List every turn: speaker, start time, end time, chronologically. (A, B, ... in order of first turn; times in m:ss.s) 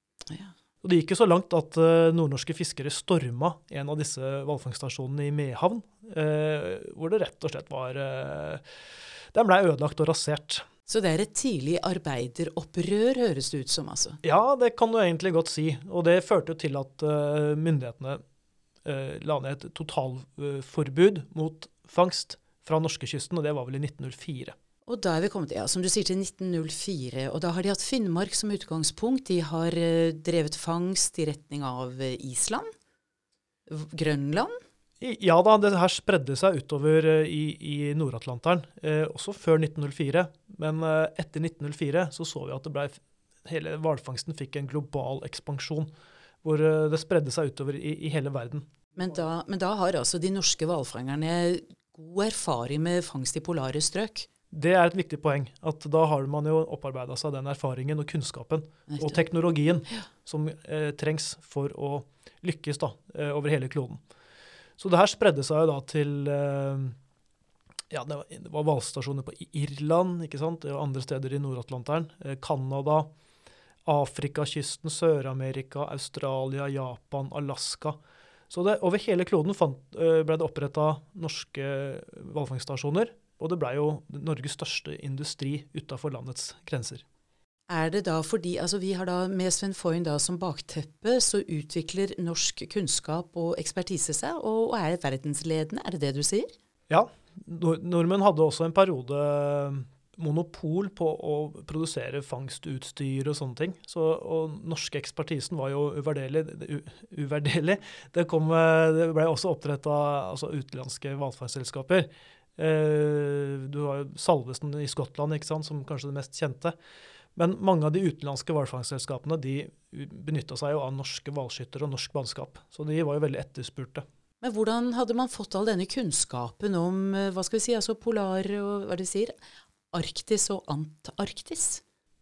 0:00.3-0:00.5 A
0:00.8-0:08.6 B
0:09.3-0:10.6 B
0:10.9-0:14.2 A
0:14.2-0:18.2 B
0:18.8-0:24.5 B
0:24.9-0:32.7 A
0:33.7-0:34.6 A
0:35.0-0:45.9 B
0:46.4-0:48.7 B
0:49.0-0:54.3 A
0:54.5-1:04.0 B
0:58.9-0:59.2 A
1:04.8-1:07.0 B
1:07.9-1:13.1 B
1:13.8-1:18.0 B
1:18.5-1:27.0 B
1:27.7-1:36.5 A
1:36.9-1:56.8 B
1:57.3-2:04.0 B
2:04.4-2:09.3 A
2:09.9-2:11.8 A